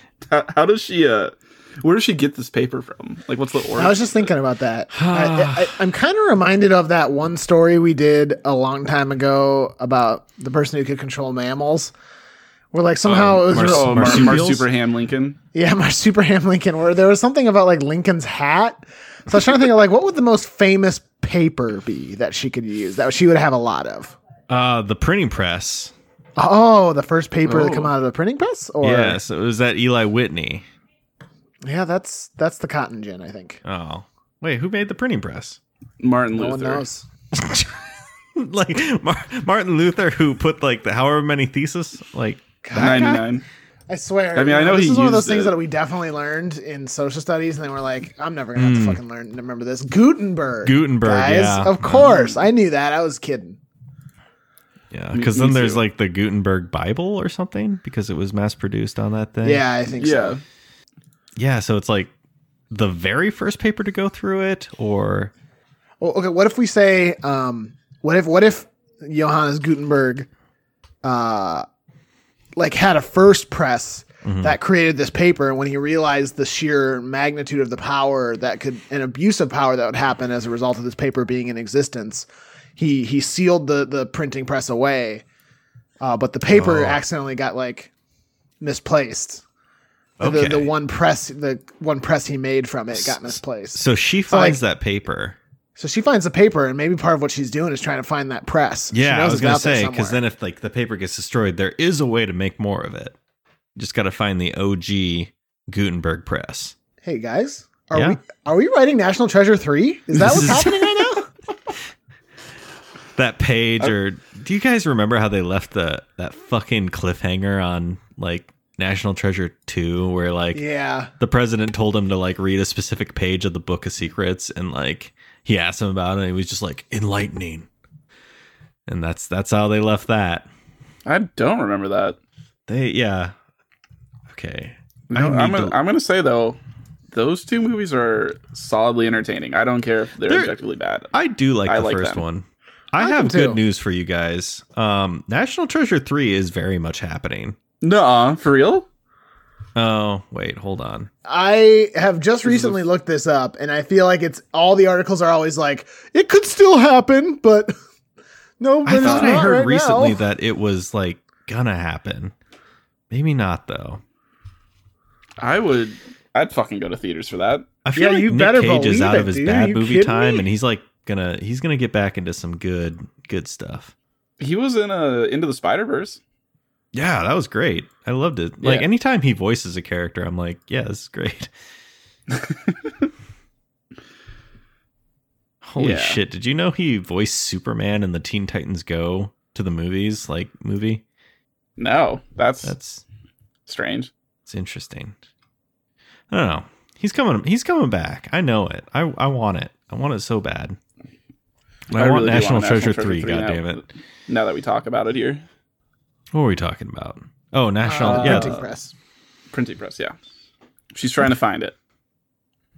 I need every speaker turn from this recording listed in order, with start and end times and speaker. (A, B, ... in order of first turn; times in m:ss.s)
0:00.2-0:04.3 A
0:03.8-0:11.9 B
0:04.9-0:05.8 C
0:12.7-0:14.4 B
0:13.1-0:14.6 C
0:13.1-0:15.4 A
0:15.5-0:24.2 B
0:24.5-0:25.9 C
0:26.4-0:29.2 B
0:27.4-0:27.9 A
0:28.8-0:30.6 C
0:31.6-0:33.6 B
0:33.6-0:35.6 C
0:36.0-0:36.8 A
0:36.4-0:37.1 B
0:37.3-0:43.2 C
0:42.6-0:43.2 B
0:42.7-0:43.4 A
0:43.9-0:53.6 B
0:44.3-0:45.5 A
0:48.5-0:49.0 C
0:50.6-0:52.1 C
0:51.9-0:52.4 A
0:54.9-0:59.6 C
0:55.1-0:55.8 A
0:59.4-1:00.4 B
1:00.0-1:00.4 A
1:01.4-1:02.1 C
1:02.7-1:05.3 C
1:06.0-1:10.3 B
1:11.0-1:11.6 B
1:12.6-1:25.2 B
1:14.2-1:14.6 C
1:26.0-1:27.9 B
1:26.5-1:27.0 C
1:28.6-1:29.4 B
1:30.2-1:30.7 C
1:30.2-1:34.6 B
1:32.9-1:35.4 C
1:35.8-1:40.2 B
1:38.9-1:43.2 C
1:43.8-1:46.7 C
1:47.0-1:51.3 B
1:50.2-1:51.2 C
1:53.2-2:00.6 C
2:00.5-2:01.1 B
2:01.2-2:07.7 C
2:08.9-2:10.5 C
2:11.0-2:12.2 A
2:12.7-2:13.3 C
2:14.3-2:15.8 C
2:15.1-2:16.6 A
2:17.1-2:21.1 A
2:20.2-2:20.5 C
2:21.1-2:27.6 C
2:21.6-2:22.2 A
2:23.0-2:23.6 B
2:27.8-2:28.9 A
2:29.7-2:31.1 C
2:31.2-2:37.7 B
2:32.4-2:32.8 A
2:38.6-2:40.2 B
2:38.8-2:42.3 C
2:39.0-2:39.5 A
2:43.1-2:44.0 C
2:45.4-2:47.7 A
2:47.8-2:53.9 C
2:47.9-2:50.4 B
2:54.4-2:56.2 A
2:56.9-3:01.5 C
2:58.6-2:58.9 A
3:02.3-3:02.9 A
3:05.6-3:11.0 C
3:05.8-3:06.2 A
3:11.8-3:12.7 A
3:12.6-3:13.0 C
3:13.6-3:14.1 A
3:14.4-3:15.2 C
3:16.3-3:20.8 C
3:21.9-3:23.8 C
3:21.9-3:25.4 A
3:26.3-3:28.6 C
3:27.8-3:28.9 B
3:28.0-3:28.7 A
3:29.5-3:30.1 A
3:30.9-3:31.7 A